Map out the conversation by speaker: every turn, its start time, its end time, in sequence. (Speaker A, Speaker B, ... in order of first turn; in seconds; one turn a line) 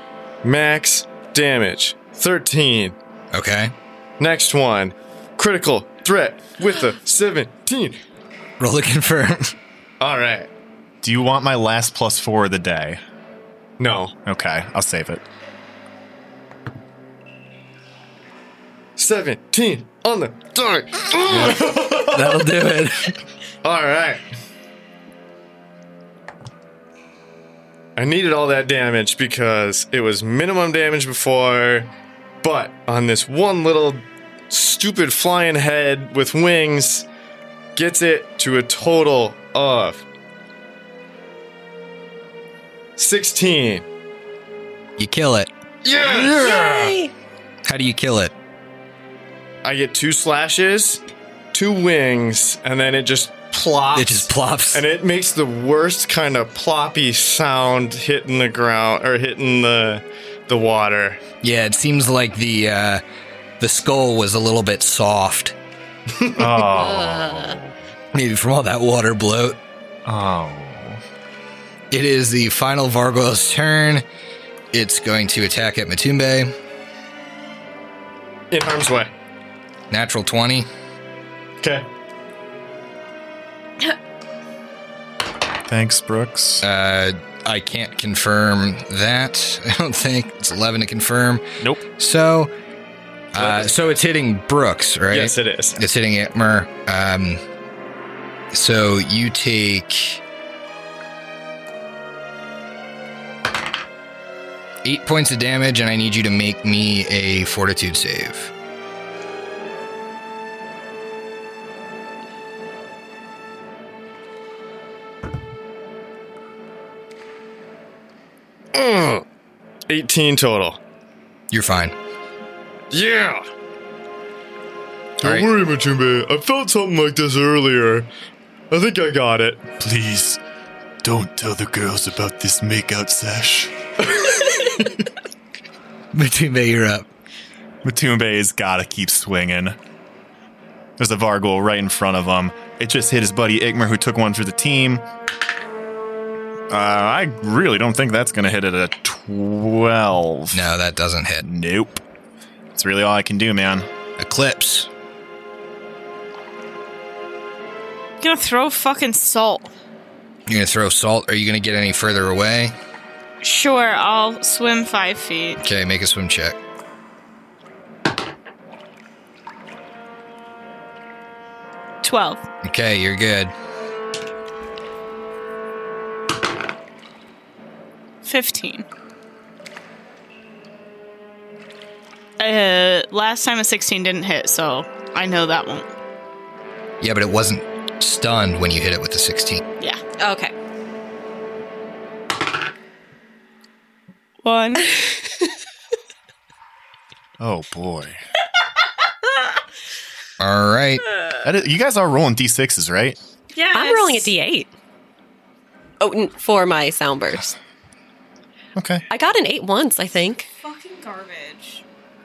Speaker A: 0.4-2.9
Speaker B: 3.3-3.7
Speaker A: 4.2-8.0
Speaker B: 8.6-9.6
Speaker A: 10.0-10.5
Speaker C: 11.0-13.0
Speaker A: 13.8-14.1
Speaker C: 14.2-15.2
Speaker A: 19.0-22.6
Speaker B: 21.2-23.2
Speaker A: 23.6-24.2
Speaker A: 27.9-31.9
Speaker A: 32.4-37.0
Speaker A: 37.7-40.0
Speaker A: 43.0-43.9
Speaker B: 45.0-45.5
Speaker A: 45.8-46.6
Speaker B: 46.1-46.8
Speaker D: 46.2-47.1
Speaker B: 47.6-48.3
Speaker A: 49.6-51.0
Speaker A: 51.5-61.2
Speaker B: 53.9-54.8
Speaker B: 61.4-63.0
Speaker B: 63.6-65.5
Speaker C: 66.3-67.7
Speaker D: 66.7-67.6
Speaker B: 68.1-69.6
Speaker C: 70.0-71.0
Speaker B: 71.9-74.0
Speaker B: 74.7-76.5
Speaker A: 78.5-79.1
Speaker B: 79.9-80.7
Speaker A: 81.6-81.9
Speaker C: 85.7-86.6
Speaker B: 86.6-92.5
Speaker B: 93.3-97.4
Speaker A: 93.3-93.8
Speaker A: 95.1-95.8
Speaker B: 98.5-100.2
Speaker B: 104.8-108.5
Speaker A: 118.7-119.2
Speaker A: 119.9-120.8
Speaker B: 121.5-122.0
Speaker A: 122.9-123.5
Speaker A: 125.2-128.1
Speaker B: 125.2-125.5
Speaker A: 128.7-129.7
Speaker C: 129.8-130.4
Speaker C: 131.0-133.7
Speaker A: 134.1-134.9
Speaker B: 136.1-137.1
Speaker C: 137.8-139.8
Speaker C: 141.0-145.1
Speaker C: 146.7-150.7
Speaker B: 150.5-151.5
Speaker C: 151.4-152.0
Speaker C: 152.7-153.9
Speaker B: 154.2-154.9
Speaker E: 158.2-159.7
Speaker B: 160.5-162.7
Speaker E: 163.4-165.6
Speaker B: 165.6-166.6
Speaker E: 172.0-172.4
Speaker B: 172.6-173.5
Speaker E: 178.2-178.8
Speaker E: 182.4-185.9
Speaker B: 187.0-189.6
Speaker D: 190.2-190.5
Speaker E: 194.4-195.0
Speaker C: 197.4-198.2
Speaker B: 200.4-201.0
Speaker C: 201.4-203.2
Speaker E: 203.5-204.3
Speaker D: 203.7-204.7
Speaker D: 206.0-207.5
Speaker C: 208.8-209.0
Speaker D: 209.1-210.5
Speaker E: 210.6-211.8